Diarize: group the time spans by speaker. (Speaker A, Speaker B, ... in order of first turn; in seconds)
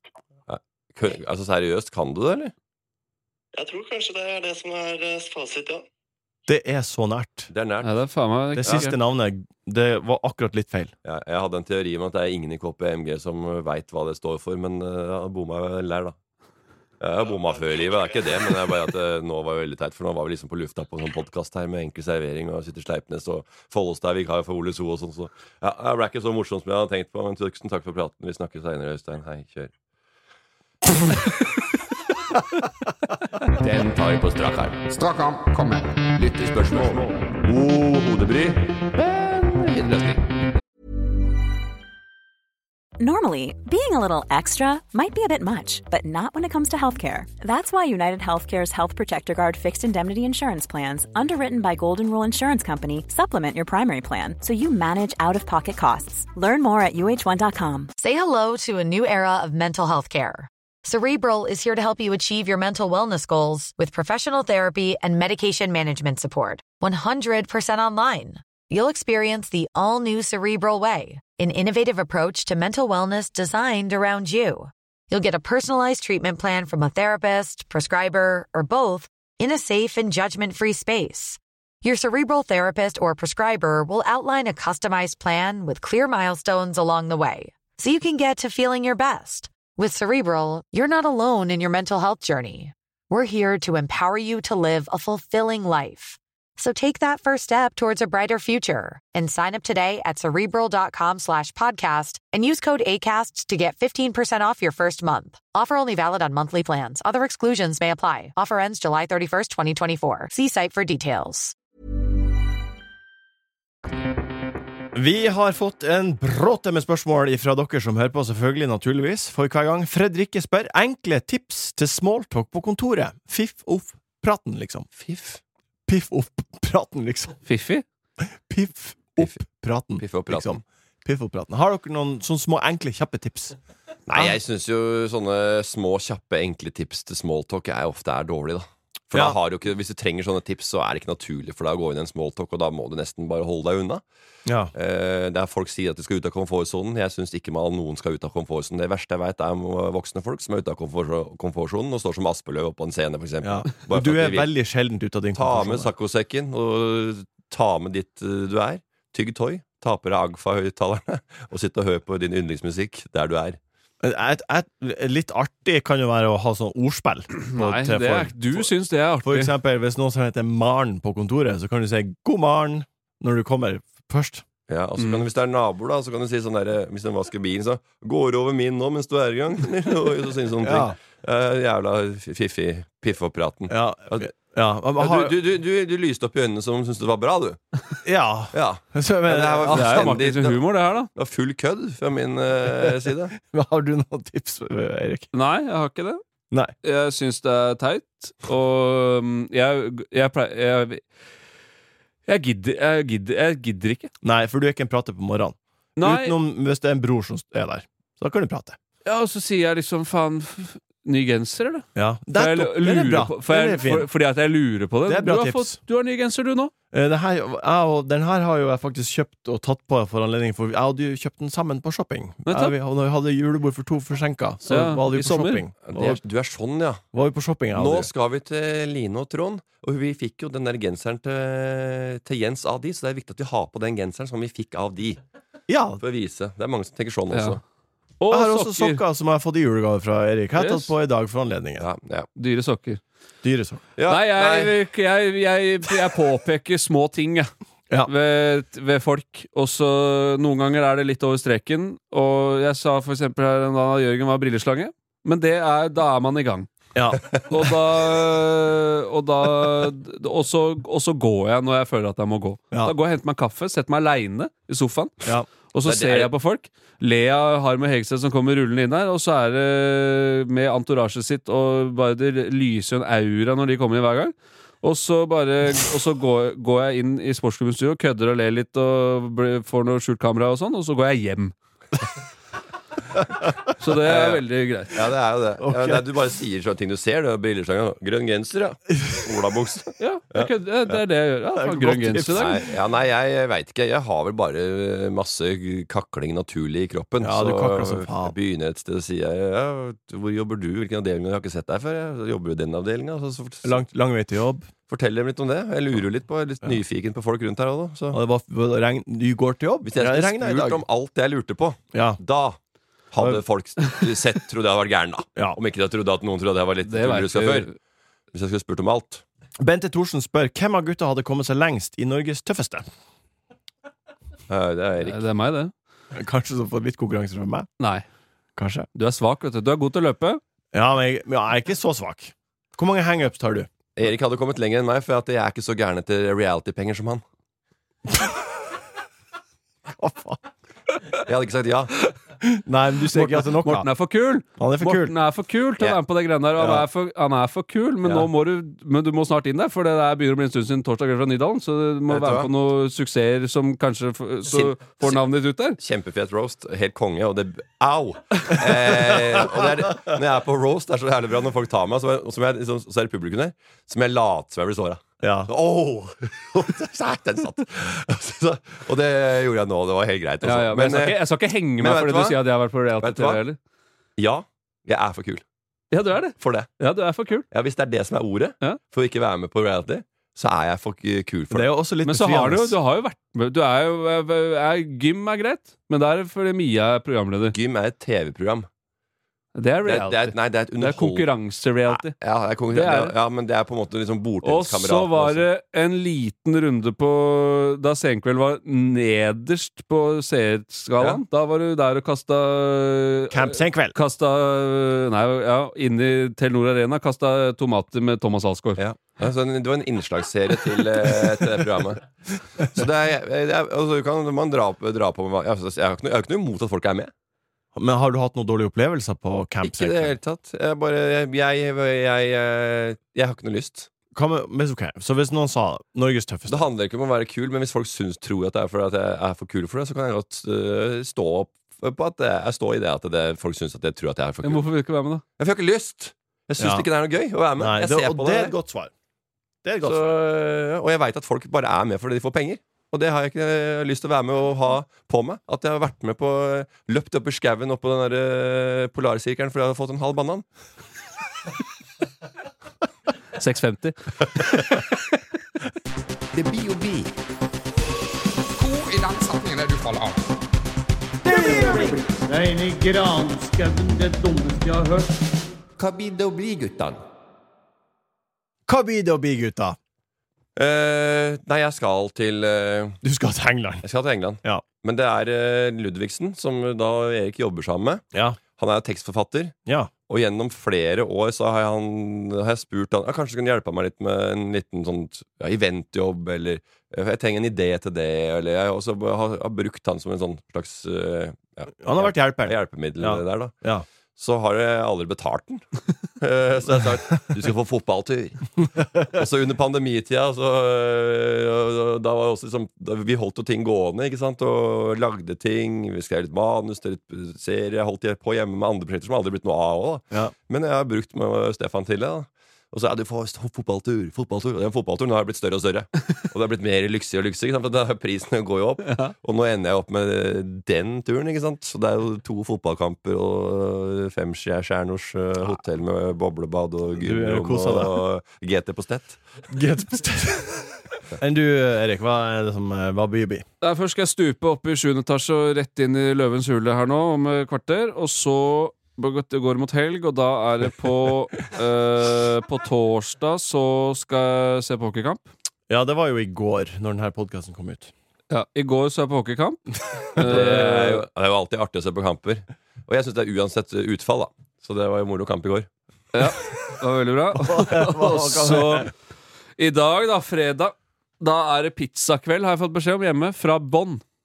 Speaker A: 0.5-2.5, 7.5-8.0, 11.1-16.1, 17.0-29.7, 33.5-34.8, 36.1-40.2, 125.0-125.4, 129.2-129.4, 130.0-130.6, 134.1-144.0, 144.7-154.5, 155.4-163.6, 174.7-184.3, 185.0-187.6, 188.5-193.4, 225.9-227.0, 227.8-235.2, 236.0-237.6, 241.8-242.3, 244.0-244.7, 265.8-266.3, 284.0-290.5, 292.3-303.8, 304.9-308.2, 309.8-312.6, 313.1-317.7, 318.3-319.2, 324.5-325.2, 334.0-337.2, 341.2-342.0, 352.1-352.5, 354.5-355.2, 355.8-371.2, 371.8-372.4, 373.0-373.4, 374.2-375.4, 376.4-376.7, 377.5-381.7, 387.5-388.7, 389.9-391.3, 391.9-395.5, 408.8-412.0, 412.6-417.1, 419.6-423.9, 426.5-434.6, 435.4-438.6, 439.8-450.4, 456.3-457.1, 465.8-467.0, 470.6-473.0, 473.8-478.0, 478.6-479.6, 480.1-493.5, 494.2-495.6, 496.2-529.2, 550.2-555.7
Speaker B: 3.5-5.8
Speaker C: 6.5-7.5, 8.6-10.9, 114.9-124.9, 125.9-127.4, 128.2-133.6, 144.5-144.7, 153.4-155.9, 164.0-168.7, 169.2-174.4, 180.6-181.0, 183.7-185.4, 188.1-190.2, 192.7-195.3, 204.2-208.8, 211.9-214.1, 215.1-215.8, 216.9-226.2, 227.1-228.1, 235.7-236.0, 238.3-241.9, 243.4-243.8, 256.9-257.2, 285.6-286.0, 291.5-292.7, 297.2-298.4, 303.6-304.7, 308.1-310.8, 311.9-312.2, 319.6-322.9, 326.1-327.7, 328.6-328.9, 330.7-333.7, 339.9-340.4, 342.4-343.9, 344.6-345.1, 346.6-346.8, 365.2-365.5, 381.5-382.8, 403.3-403.9, 417.8-420.2, 424.1-426.7, 436.6-436.9, 437.6-438.9, 439.6-440.2, 461.2-462.0, 468.7-469.8, 473.0-473.9, 478.1-478.4, 479.7-479.9, 491.8-493.9, 527.0-528.0, 529.5-533.5, 545.7-547.9, 557.4-558.9
Speaker D: 7.8-9.0, 127.5-127.8, 167.4-169.5, 175.0-175.2, 189.7-191.1, 195.3-196.2, 196.8-201.0, 202.3-204.1, 206.0-206.4, 209.1-216.7, 222.5-222.7, 224.7-225.6, 237.3-237.6, 238.2-239.0, 240.6-240.9, 242.4-243.0, 244.1-247.5, 248.1-256.7, 257.3-265.2, 265.7-281.5, 283.8-285.0, 290.0-292.6, 316.9-317.7, 325.0-325.7, 327.8-328.1, 328.9-330.4, 343.2-355.8, 370.4-373.6, 375.9-377.4, 382.0-387.6, 389.6-392.1, 392.7-393.1, 394.4-408.8, 434.4-435.2, 453.4-454.8, 533.6-545.3, 548.3-551.0, 556.1-558.9, 559.6-564.0
Speaker E: 34.9-36.1, 458.6-460.4
Speaker F: 43.0-57.9
Speaker G: 58.0-111.5
Speaker H: 461.3-465.2